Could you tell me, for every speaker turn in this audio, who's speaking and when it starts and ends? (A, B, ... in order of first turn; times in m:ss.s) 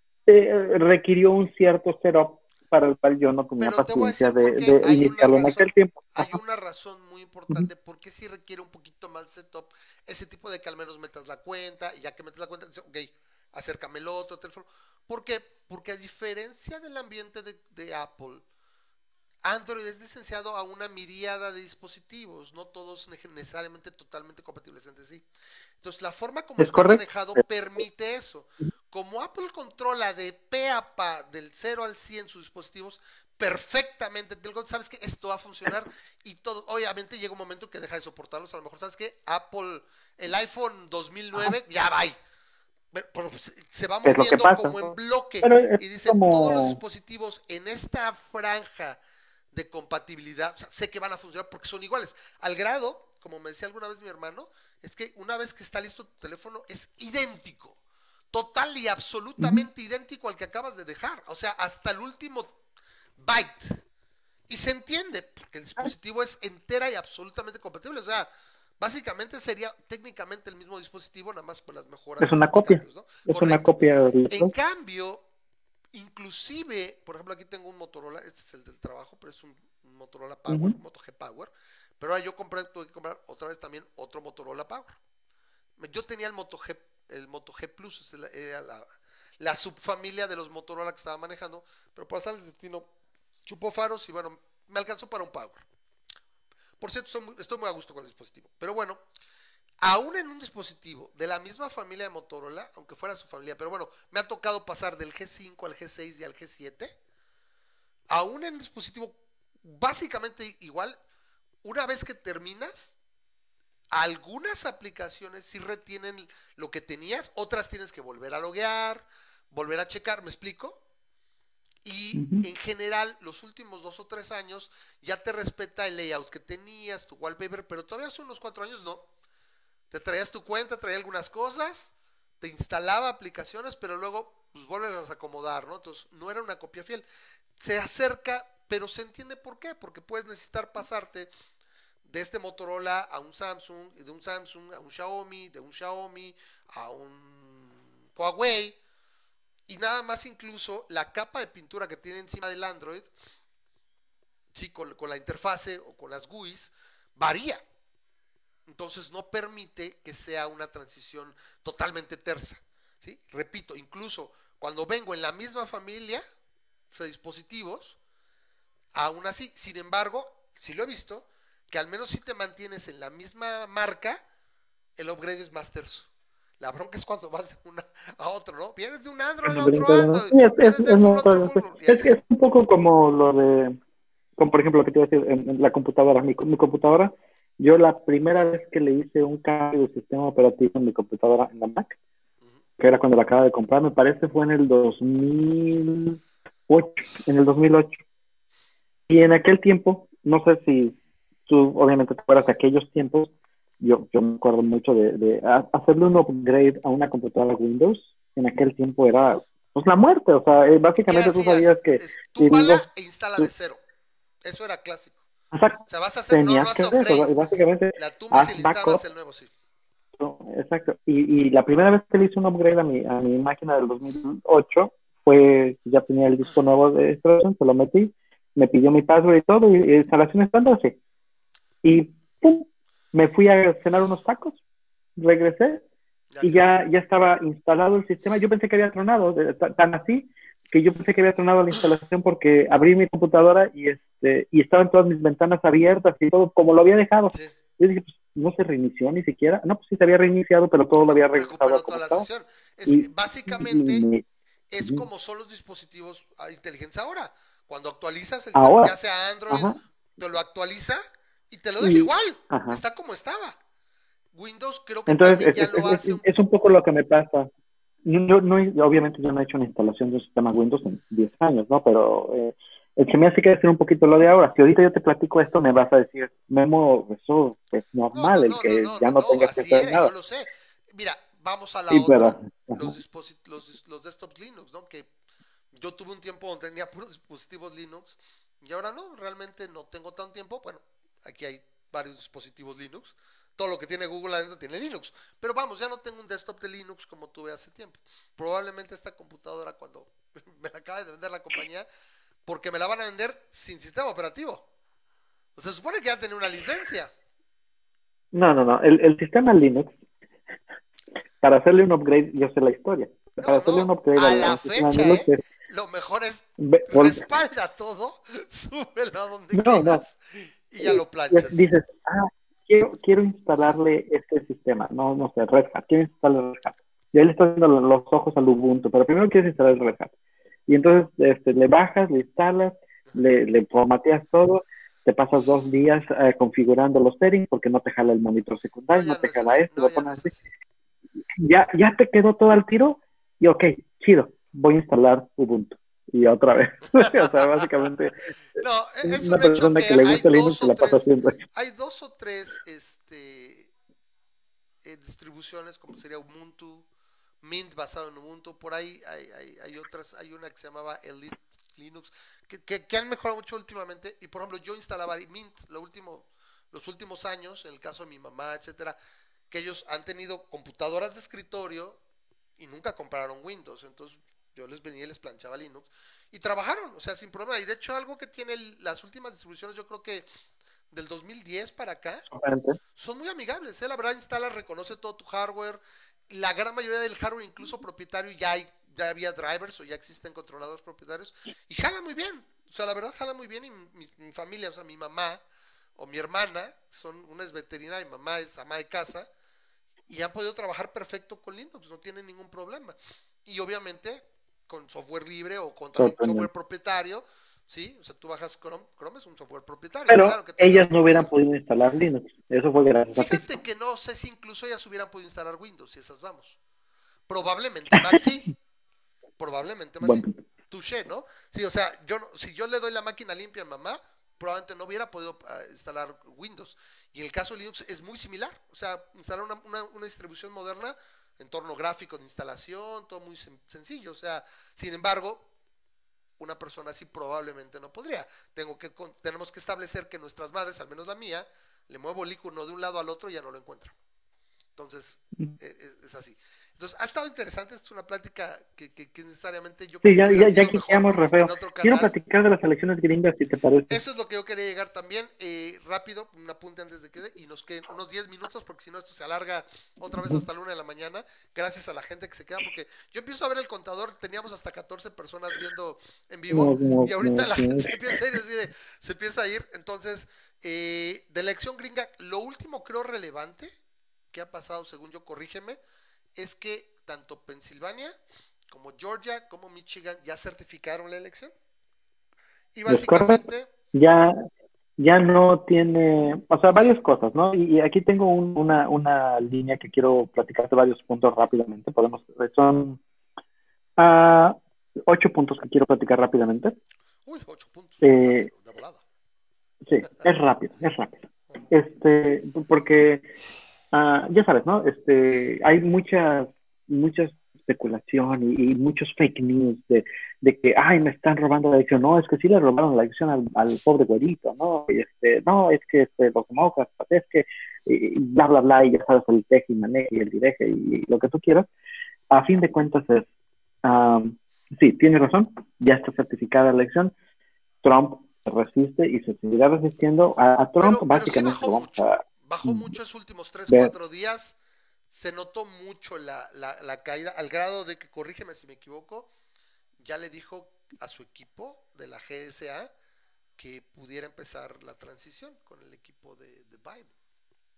0:00.3-0:06.4 A
0:03.6-0:18.4 B
0:19.4-0:25.2 B
0:25.8-0:42.2 B
0:26.6-0:27.0 A
0:42.9-0:49.0 B
0:44.0-0:46.8 A
0:49.5-0:57.8 B
0:58.3-1:02.6 B
0:59.4-0:59.6 A
1:03.2-1:03.8 B
1:04.5-1:08.3 B
1:08.8-1:13.7 B
1:12.2-1:14.5 A
1:14.3-1:15.2 B
1:15.9-1:25.0 B
1:20.5-1:20.8 A
1:25.8-1:28.9 B
1:29.4-1:32.9 B
1:33.5-1:35.6 B
1:36.8-1:39.0 B
1:39.8-1:47.0 B
1:48.1-1:51.0 B
1:51.6-1:53.0 B
1:53.9-2:00.8 B
2:01.8-2:09.1 B
2:02.2-2:02.4 A
2:09.9-2:17.0 B
2:17.6-2:21.3 B
2:22.0-2:28.8 B
2:29.7-2:33.1 B
2:34.5-2:37.6 B
2:38.7-2:46.2 B
2:46.9-2:48.0 B
2:49.0-2:54.2 B
2:55.0-3:02.2 B
2:59.4-3:03.8 A
3:04.4-3:12.0 A
3:12.8-3:18.0 A
3:19.1-3:21.0 A
3:21.5-3:32.8 A
3:31.0-3:33.8 B
3:34.4-3:35.2 B
3:35.5-3:39.0 A
3:35.9-3:37.3 B
3:38.0-3:39.5 B
3:40.2-3:51.0 A
3:51.8-3:54.6 A
3:55.2-3:55.8 A
3:56.3-3:56.7 B
3:56.4-4:12.3 A
4:11.3-4:14.1 B
4:12.9-4:14.2 A
4:14.7-4:23.6 B
4:18.6-4:18.9 A
4:19.5-4:19.8 A
4:21.8-4:22.8 A
4:24.4-4:26.5 B
4:25.1-4:27.5 A
4:28.0-4:40.1 A
4:38.1-4:45.1 B
4:41.9-4:43.0 A
4:45.8-5:01.9 B
5:02.5-5:04.7 B
5:05.6-5:07.1 B
5:08.3-5:10.0 A
5:11.4-5:15.4 A
5:13.4-5:21.7 B
5:16.6-5:17.2 A
5:19.5-5:20.0 A
5:20.8-5:30.1 A
5:30.7-5:40.3 A
5:38.9-5:40.4 B
5:41.3-5:48.2 A
5:47.0-5:47.9 B
5:48.6-5:53.7 B
5:49.0-5:51.4 A
5:54.8-5:56.9 B
5:57.4-6:09.0 B
6:09.5-6:12.0 B
6:12.6-6:20.3 B
6:20.9-6:22.3 B
6:22.3-6:22.8 A
6:23.0-6:35.4 B
6:36.0-6:39.3 B
6:40.1-6:51.3 B
6:46.0-6:46.5 A
6:50.1-6:53.5 A
6:53.1-6:56.6 B
6:57.3-6:58.5 B
6:59.4-7:15.5 B
7:00.0-7:00.3 A
7:16.4-7:23.9 B
7:24.8-7:32.1 B
7:30.0-7:34.0 A
7:33.9-7:53.7 B
7:40.2-7:40.4 A
7:46.5-7:48.0 A
7:54.3-7:55.8 B
7:56.4-7:58.2 B
7:58.7-8:01.5 B
8:02.8-8:03.7 B
8:02.9-8:04.4 A
8:05.0-8:13.0 A
8:14.0-8:16.8 A
8:17.2-8:19.0 B
8:18.0-8:18.5 A
8:19.8-8:21.2 A
8:21.7-8:23.2 A
8:23.9-8:41.7 A
8:42.3-8:43.3 A
8:43.8-8:47.1 A
8:47.8-8:52.9 A
8:50.8-8:54.6 B
8:55.1-8:59.3 B
9:00.0-9:02.9 B
9:03.6-9:07.1 B